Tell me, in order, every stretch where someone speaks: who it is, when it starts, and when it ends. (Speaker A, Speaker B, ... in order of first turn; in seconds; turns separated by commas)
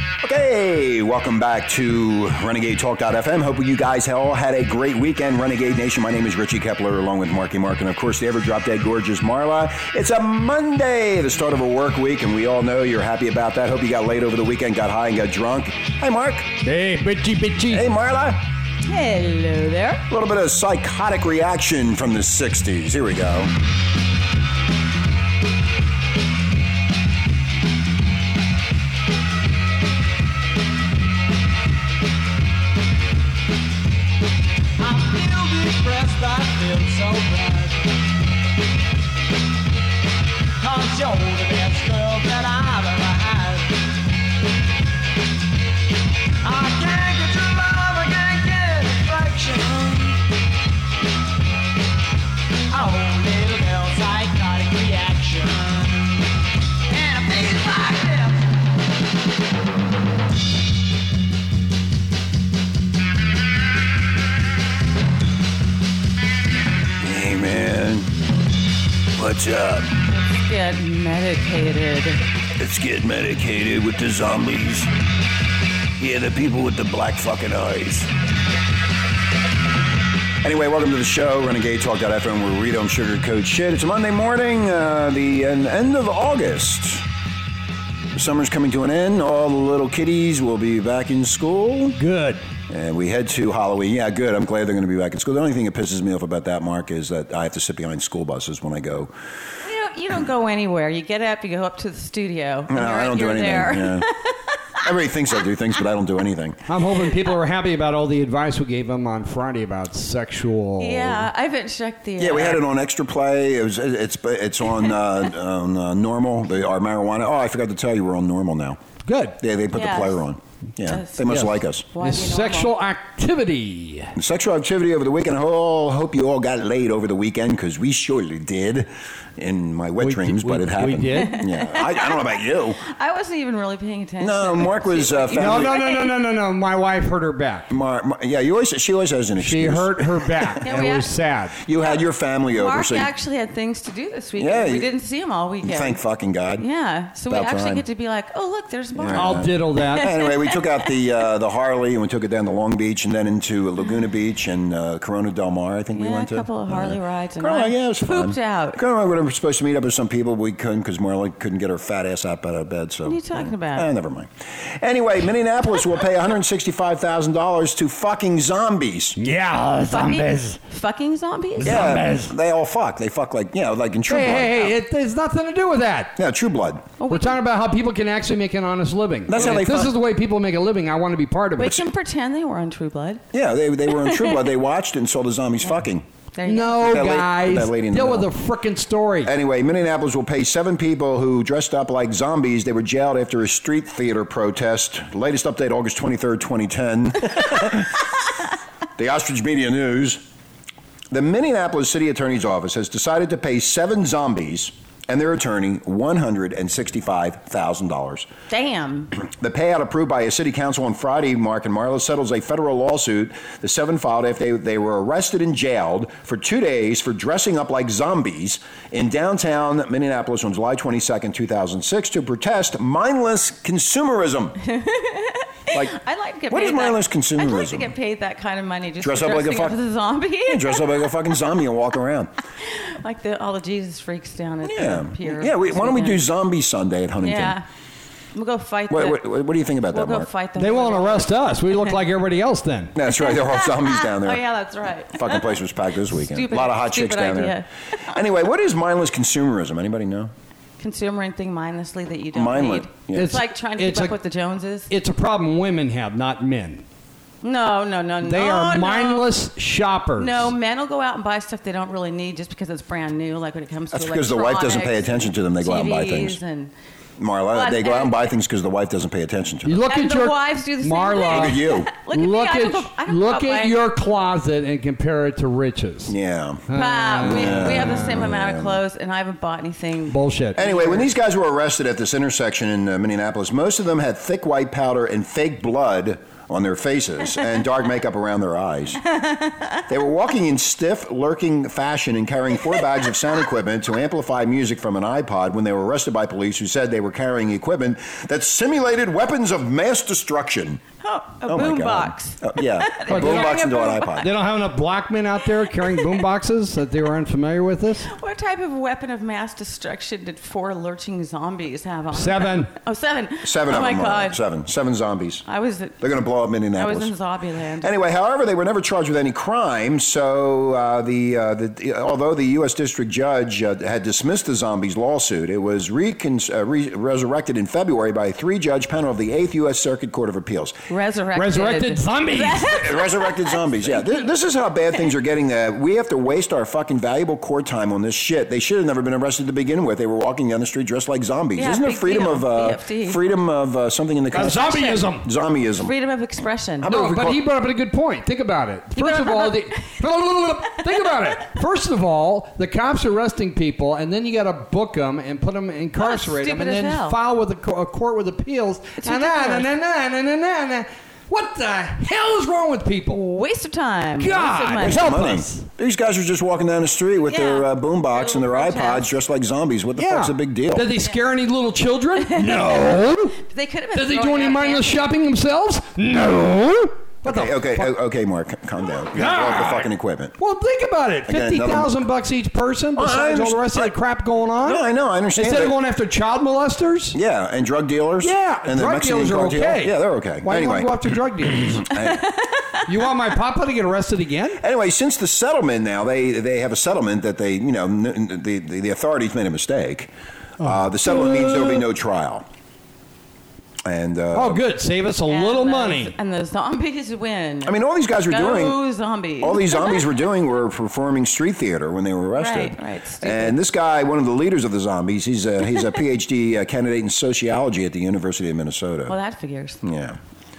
Speaker A: 0.2-16.5, Speaker B: 16.6-17.9, Speaker A: 17.7-18.4, Speaker C: 18.8-20.0, Speaker A: 20.1-23.6, Speaker D: 34.8-37.8, Speaker D: 40.6-43.8, Speaker D: 46.4-50.2, Speaker D: 52.7-56.2, Speaker D: 56.9-58.5, Speaker A: 67.0-68.1, Speaker A: 69.1-70.1, Speaker C: 70.1-72.2, Speaker A: 72.5-74.9, Speaker A: 76.0-78.1, Speaker A: 80.4-87.0, Speaker A: 88.1-92.0, Speaker B: 92.0-92.4, Speaker A: 92.7-99.1, Speaker C: 99.6-104.8, Speaker A: 102.7-104.1, Speaker A: 104.8-106.6, Speaker B: 106.7-111.3, Speaker C: 110.8-112.6, Speaker A: 112.2-118.8, Speaker B: 119.0-119.4, Speaker A: 119.4-121.9, Speaker C: 119.7-120.2, Speaker C: 120.8-122.7, Speaker B: 121.2-124.1, Speaker A: 124.1-132.8, Speaker B: 130.0-131.4, Speaker C: 131.1-136.1, Speaker A: 134.2-135.8, Speaker B: 135.4-137.7, Speaker A: 137.7-140.7, Speaker B: 139.4-141.6, Speaker C: 140.6-141.1, Speaker A: 141.6-143.1, Speaker C: 142.5-146.0, Speaker A: 144.4-144.9, Speaker A: 145.6-146.7, Speaker C: 146.6-150.9, Speaker A: 147.3-147.8, Speaker A: 148.9-169.2, Speaker B: 149.1-150.1, Speaker C: 155.9-158.8, Speaker C: 163.0-163.9, Speaker B: 169.2-170.6, Speaker C: 169.9-172.0, Speaker B: 171.6-172.3, Speaker A: 171.6-174.8, Speaker B: 174.1-176.2, Speaker A: 176.2-176.8, Speaker C: 177.0-177.4, Speaker B: 177.1-181.9, Speaker A: 179.3-179.9, Speaker C: 181.6-183.2, Speaker A: 183.3-186.0, Speaker C: 183.9-184.4, Speaker C: 186.3-186.9, Speaker B: 186.4-189.3, Speaker A: 186.8-188.3, Speaker A: 189.2-198.1, Speaker A: 199.0-200.2, Speaker A: 201.1-208.3, Speaker C: 208.5-209.1, Speaker A: 209.1-224.6, Speaker C: 224.6-230.8, Speaker A: 225.7-225.9, Speaker A: 226.5-227.9, Speaker A: 229.0-229.8, Speaker A: 230.5-232.3, Speaker C: 232.6-236.2, Speaker A: 234.6-237.6, Speaker C: 237.2-237.6, Speaker C: 238.3-239.3, Speaker A: 238.9-240.3, Speaker C: 239.9-241.5, Speaker B: 240.6-242.9, Speaker A: 242.9-244.4, Speaker C: 243.2-247.7, Speaker A: 245.1-250.3, Speaker C: 250.8-254.9, Speaker A: 252.3-253.3, Speaker B: 253.1-254.2, Speaker B: 254.9-256.8, Speaker C: 257.4-259.3, Speaker B: 258.2-260.5, Speaker C: 260.2-266.7, Speaker A: 263.9-266.4, Speaker A: 267.2-269.8, Speaker C: 267.5-268.2, Speaker B: 269.6-276.1, Speaker C: 269.9-273.8, Speaker A: 271.3-271.9, Speaker A: 276.1-276.7, Speaker B: 276.7-278.2, Speaker C: 276.7-281.1, Speaker A: 277.2-278.8, Speaker B: 280.1-280.6, Speaker A: 280.5-289.0, Speaker C: 289.2-289.6, Speaker A: 289.9-300.8, Speaker C: 301.0-304.3, Speaker A: 301.4-304.3, Speaker B: 303.1-303.5, Speaker B: 304.2-308.1, Speaker C: 305.7-306.1, Speaker C: 308.1-314.4, Speaker B: 312.1-312.7, Speaker A: 313.4-315.4, Speaker C: 315.4-316.0, Speaker A: 316.0-317.1, Speaker C: 316.7-317.9, Speaker A: 317.8-330.8, Speaker C: 330.9-334.2, Speaker B: 331.4-332.8, Speaker A: 332.6-345.9, Speaker C: 341.6-343.2, Speaker B: 344.3-345.3, Speaker C: 344.5-345.0, Speaker C: 345.8-346.9, Speaker A: 346.8-347.4, Speaker B: 346.9-363.2, Speaker C: 349.0-349.9, Speaker C: 356.0-357.2, Speaker C: 359.0-359.7, Speaker C: 363.1-365.2, Speaker B: 364.2-365.6, Speaker A: 364.8-370.9, Speaker C: 367.3-369.1, Speaker B: 370.0-373.4, Speaker C: 372.2-375.0, Speaker B: 373.9-377.9, Speaker A: 377.2-380.4, Speaker B: 379.1-384.8, Speaker A: 381.3-381.9, Speaker A: 382.9-383.9, Speaker A: 384.6-385.8, Speaker B: 385.4-387.2, Speaker A: 387.1-391.2, Speaker B: 388.2-391.9, Speaker A: 391.7-392.4, Speaker B: 392.8-394.6, Speaker A: 394.6-402.4, Speaker B: 400.6-401.8, Speaker A: 403.8-404.6, Speaker B: 404.3-406.1, Speaker C: 405.3-407.8, Speaker A: 407.6-408.8, Speaker C: 408.3-409.9, Speaker A: 409.4-419.1, Speaker C: 412.4-413.6, Speaker C: 419.1-419.8, Speaker A: 419.8-420.2